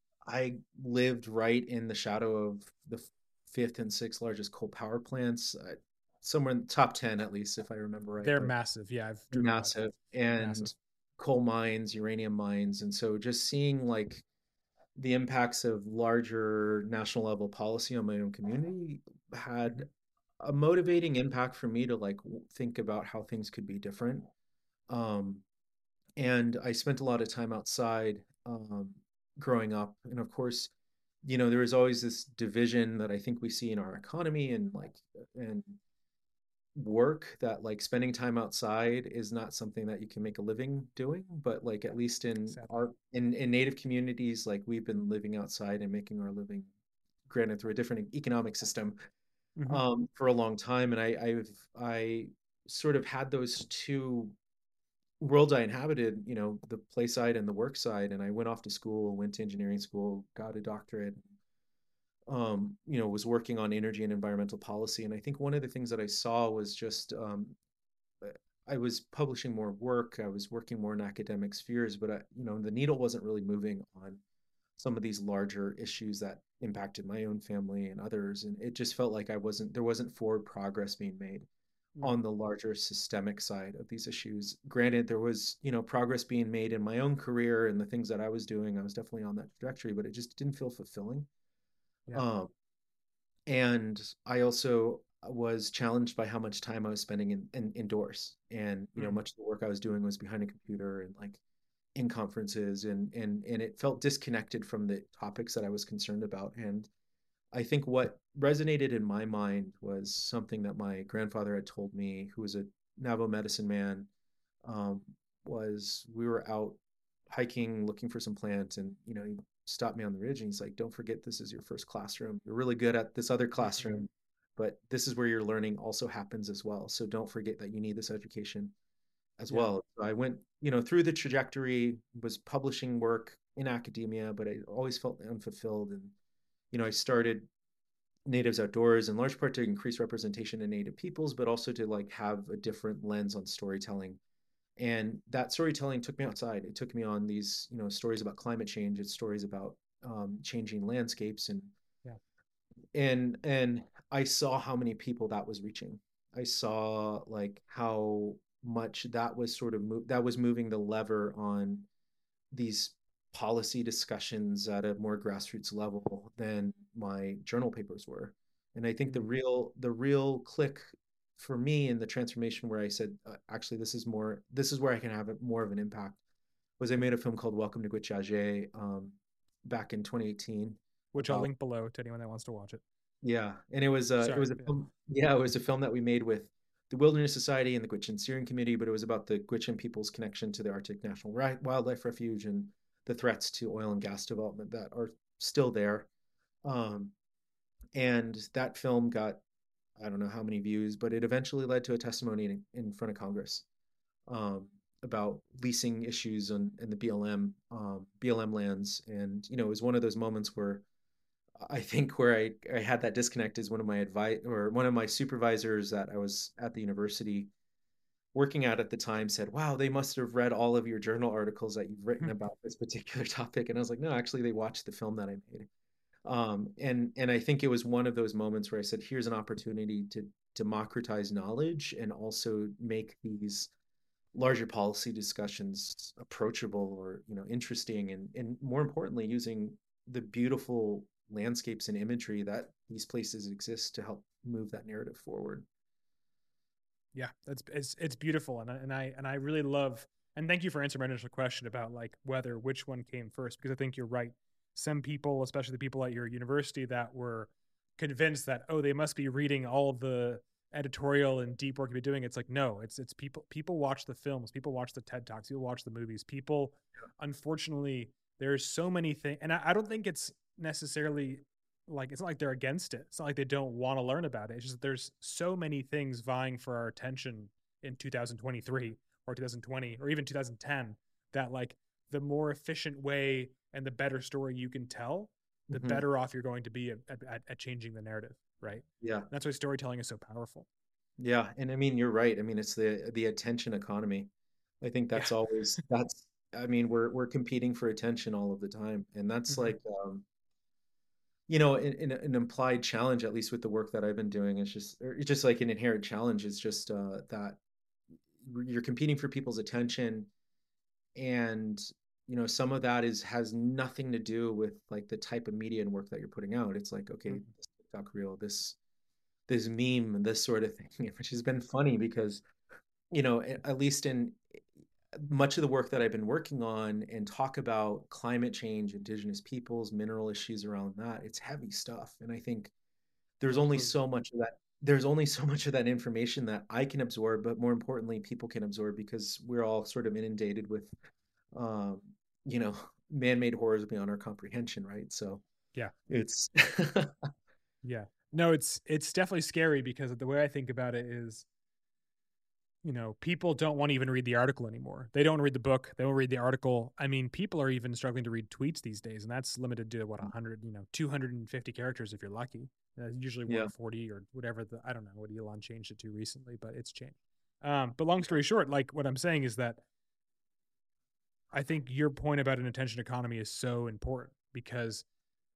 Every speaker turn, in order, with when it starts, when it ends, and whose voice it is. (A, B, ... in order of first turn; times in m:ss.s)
0:00.2-0:08.5 A
0:08.2-0:09.8 B
0:09.3-0:14.2 A
0:10.4-0:10.7 B
0:15.0-0:19.9 A
0:20.4-0:24.3 A
0:24.9-0:25.4 A
0:26.2-0:30.7 A
0:31.2-0:35.8 A
0:36.8-0:46.7 A
0:42.5-0:42.8 B
0:47.3-0:49.0 A
0:49.6-0:49.8 B
0:49.7-0:54.4 A
0:55.2-1:01.4 A
1:02.3-1:07.6 A
1:08.2-1:14.2 A
1:14.8-1:21.5 A
1:22.0-1:31.3 A
1:32.1-1:32.5 A
1:33.5-1:41.4 A
1:42.0-1:46.9 A
1:47.5-1:54.1 A
1:54.6-2:08.7 A
2:03.6-2:04.0 B
2:09.4-2:16.1 A
2:16.7-2:17.5 A
2:18.2-2:24.2 A
2:24.8-2:31.7 A
2:32.9-2:41.9 A
2:42.5-2:56.2 A
2:56.8-3:01.5 A
3:01.1-3:02.8 B
3:03.2-3:16.1 A
3:04.2-3:04.7 B
3:16.6-3:17.1 A
3:17.9-3:19.4 A
3:20.0-3:23.6 A
3:24.3-3:30.8 A
3:31.6-3:37.5 A
3:38.3-3:45.7 A
3:46.2-3:53.7 A
3:54.3-4:05.7 A
4:07.2-4:50.7 B
4:45.7-4:46.0 A
4:49.0-4:49.3 A
4:51.2-4:54.3 A
4:54.8-5:00.2 A
5:01.5-5:07.6 A
5:08.4-5:10.3 A
5:11.2-5:18.8 A
5:19.5-5:22.4 A
5:23.1-5:32.7 A
5:33.4-5:40.9 A
5:33.6-5:33.9 B
5:41.5-5:45.4 A
5:46.1-5:47.3 A
5:47.8-5:51.5 B
5:52.8-6:09.8 B
6:03.5-6:03.7 A
6:11.5-6:15.0 B